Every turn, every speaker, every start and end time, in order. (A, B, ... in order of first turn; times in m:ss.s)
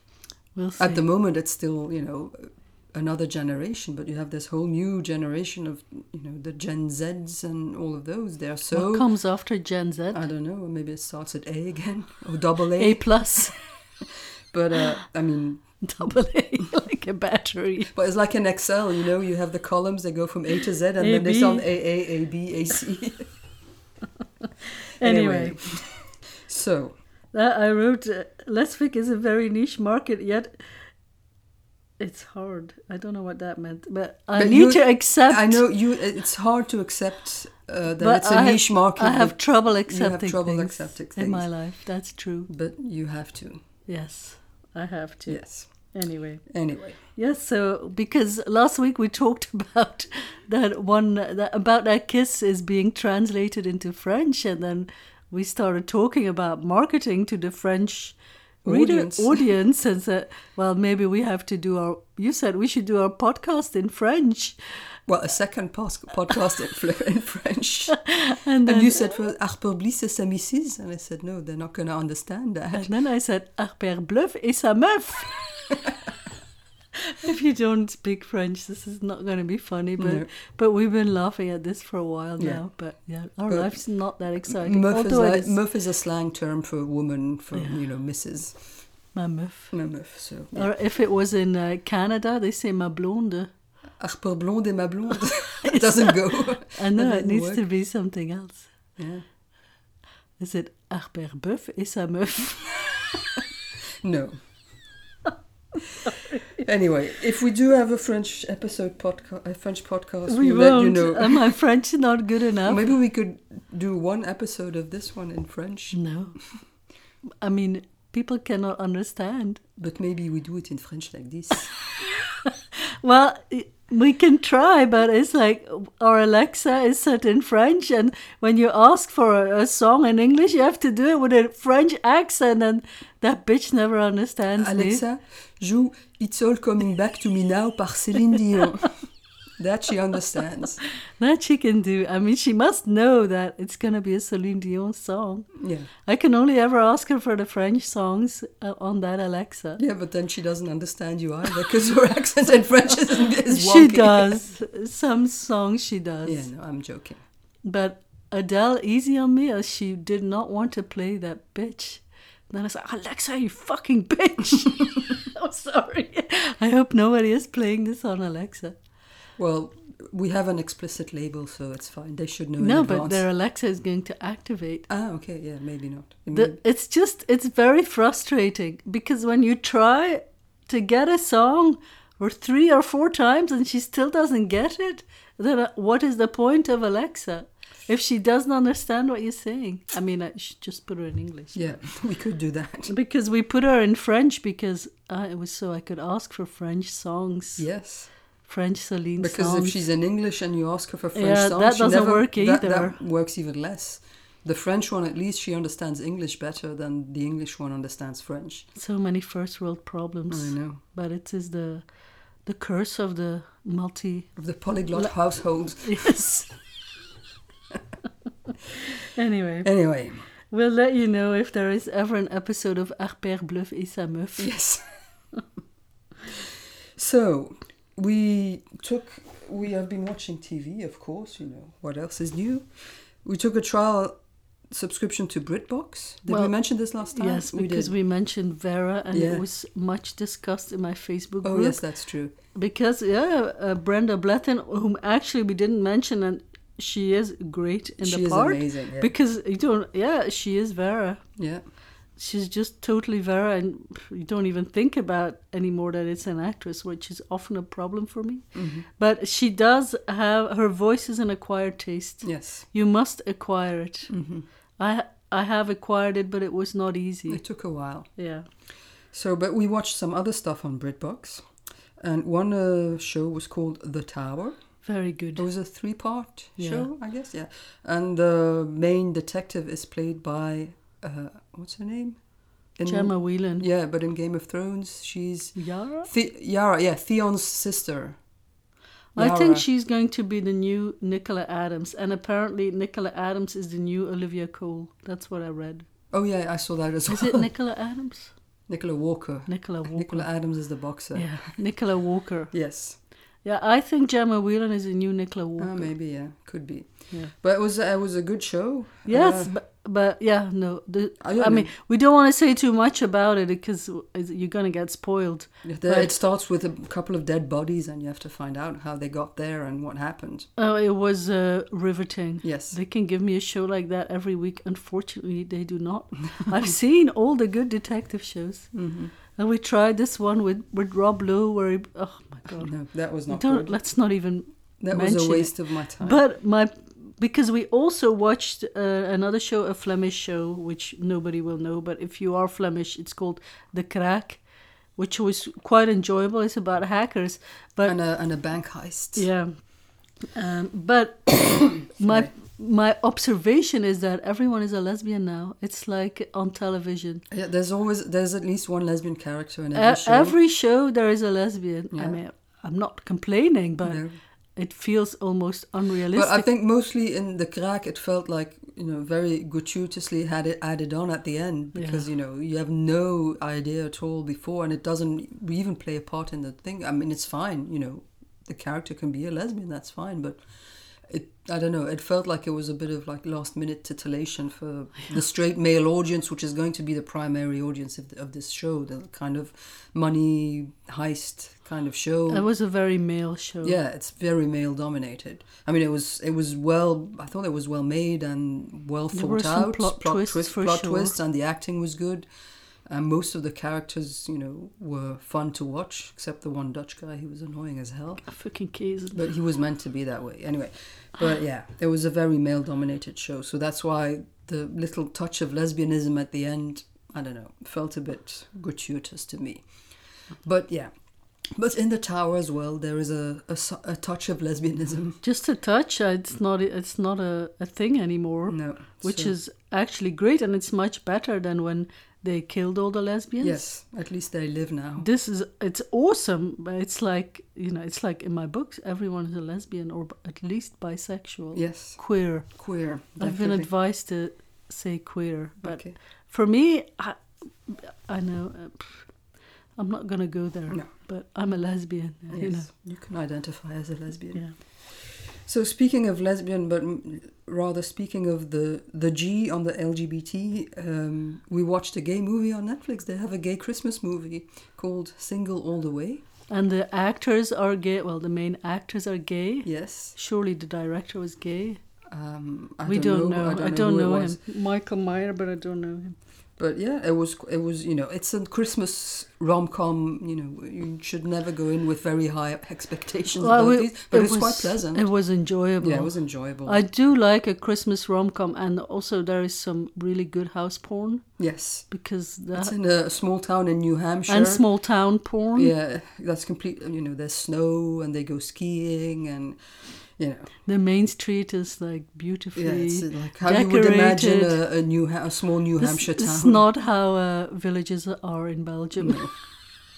0:00.6-0:01.0 A
0:00.8-0:09.1 B
0:08.7-0:10.2 A
0:10.1-0:13.2 B
0:12.8-0:13.6 A
0:14.0-0:15.7 B
0:15.8-0:17.9 A
0:17.9-0:23.3 B
0:21.0-0:21.7 A
0:24.8-0:25.6 A
0:25.0-0:27.0 B
0:27.3-0:30.6 A
0:32.0-0:35.6 A
0:34.4-0:41.5 B
0:38.0-0:42.5 A
0:42.5-0:43.6 B
0:43.9-0:46.5 A
0:45.3-0:45.7 B
0:46.5-0:47.0 B
0:47.1-1:04.6 A
0:58.6-0:59.5 B
1:05.1-1:08.0 B
1:07.9-1:09.0 A
1:08.6-1:12.9 B
1:12.7-1:15.4 A
1:17.0-1:25.6 A
1:20.0-1:20.3 B
1:22.4-1:22.6 B
1:23.5-1:23.8 B
1:24.5-1:28.6 B
1:29.2-1:29.7 A
1:29.7-1:30.7 B
1:30.5-1:33.5 A
1:34.0-1:37.6 B
1:35.7-1:38.7 A
1:39.0-1:39.2 B
1:40.4-1:43.0 A
1:44.0-1:44.4 B
1:46.0-1:46.6 A
1:46.1-1:51.6 B
1:50.3-1:52.8 A
1:52.7-1:56.0 B
1:55.9-1:56.4 A
1:57.4-1:59.6 A
1:59.8-2:01.7 B
2:02.0-2:15.0 A
2:14.6-2:19.0 B
2:19.6-2:20.8 B
2:21.2-2:25.5 A
2:25.6-2:25.9 B
2:26.0-2:29.8 A
2:29.8-2:34.4 B
2:33.5-2:36.5 A
2:36.2-2:37.2 B
2:37.6-2:48.8 A
2:49.4-2:53.2 B
2:52.6-2:54.9 A
2:54.9-2:56.6 B
2:56.3-3:11.6 A
3:11.5-3:12.9 B
3:12.9-3:17.7 A
3:17.6-3:18.1 B
3:18.4-3:19.8 A
3:19.2-3:28.7 B
3:21.2-3:23.0 A
3:28.8-3:31.8 A
3:30.3-3:30.8 B
3:32.5-3:34.3 A
3:34.4-3:36.3 B
3:35.8-3:36.5 A
3:39.1-3:39.7 A
3:39.6-3:40.2 B
3:40.5-3:44.5 A
3:44.4-3:44.8 B
3:46.3-3:52.7 B
3:53.2-3:54.2 B
3:54.7-3:57.9 B
3:56.3-3:56.5 A
3:57.1-4:01.8 A
3:59.1-3:59.4 B
4:01.4-4:02.3 B
4:02.6-4:11.2 A
4:08.0-4:09.1 B
4:11.4-4:11.6 B
4:12.2-4:18.4 A
4:18.5-4:18.9 B
4:19.0-4:24.1 A
4:22.2-4:22.6 B
4:24.1-4:24.5 B
4:24.8-4:27.4 A
4:27.3-4:28.1 B
4:28.2-4:28.5 A
4:29.1-4:31.4 B
4:32.0-4:34.6 B
4:34.8-4:35.5 A
4:35.4-4:42.2 B
4:36.6-4:36.9 A
4:42.8-4:48.2 B
4:42.9-4:43.7 A
4:45.6-4:46.1 A
4:49.2-4:49.6 B
4:49.2-4:55.9 A
4:56.1-4:57.5 B
4:57.1-4:58.3 A
4:58.7-5:01.5 B
4:59.5-5:00.3 A
5:01.1-5:02.5 A
5:02.5-5:03.0 B
5:03.4-5:05.9 A
5:05.6-5:09.5 B
5:09.1-5:16.1 A
5:11.2-5:11.7 B
5:15.6-5:20.5 B
5:20.6-5:28.7 A
5:22.4-5:22.8 B
5:28.7-5:29.1 B
5:29.4-5:32.7 A
5:32.5-5:33.8 B
5:33.3-5:44.4 A
5:34.8-5:36.2 B
5:45.0-5:48.0 A
5:47.8-5:49.3 B
5:49.2-5:49.5 A
5:50.3-5:57.2 A
5:52.0-5:52.3 B
5:57.3-6:00.4 B
5:59.7-6:04.0 A
6:01.9-6:02.2 B
6:03.8-6:04.2 B
6:04.6-6:06.5 A
6:06.1-6:20.4 B
6:11.8-6:12.0 A
6:21.0-6:32.5 B
6:32.3-6:33.8 A
6:33.6-6:42.3 B
6:39.1-6:41.2 A
6:42.9-6:48.2 B
6:48.3-6:49.2 A
6:49.1-6:59.6 B
7:00.4-7:00.9 B
7:01.5-7:05.2 B
7:05.2-7:13.6 A
7:08.5-7:09.3 B
7:13.4-7:15.1 B
7:15.0-7:22.5 A
7:21.6-7:23.7 B
7:23.2-7:29.1 A
7:25.6-7:26.0 B
7:29.8-7:32.7 A
7:32.3-7:46.2 B
7:46.5-7:51.8 A
7:49.7-7:50.2 B
7:52.1-7:54.4 B
7:52.9-7:56.2 A
7:56.6-8:05.1 B
8:03.4-8:06.1 A
8:05.8-8:06.8 B
8:06.6-8:11.2 A
8:11.4-8:11.9 B
8:11.9-8:12.7 A
8:12.6-8:14.7 B
8:14.3-8:15.7 A
8:15.5-8:19.6 B
8:20.2-8:20.5 B
8:20.7-8:24.6 A
8:22.6-8:26.6 B
8:25.8-8:29.3 A
8:29.0-8:29.3 B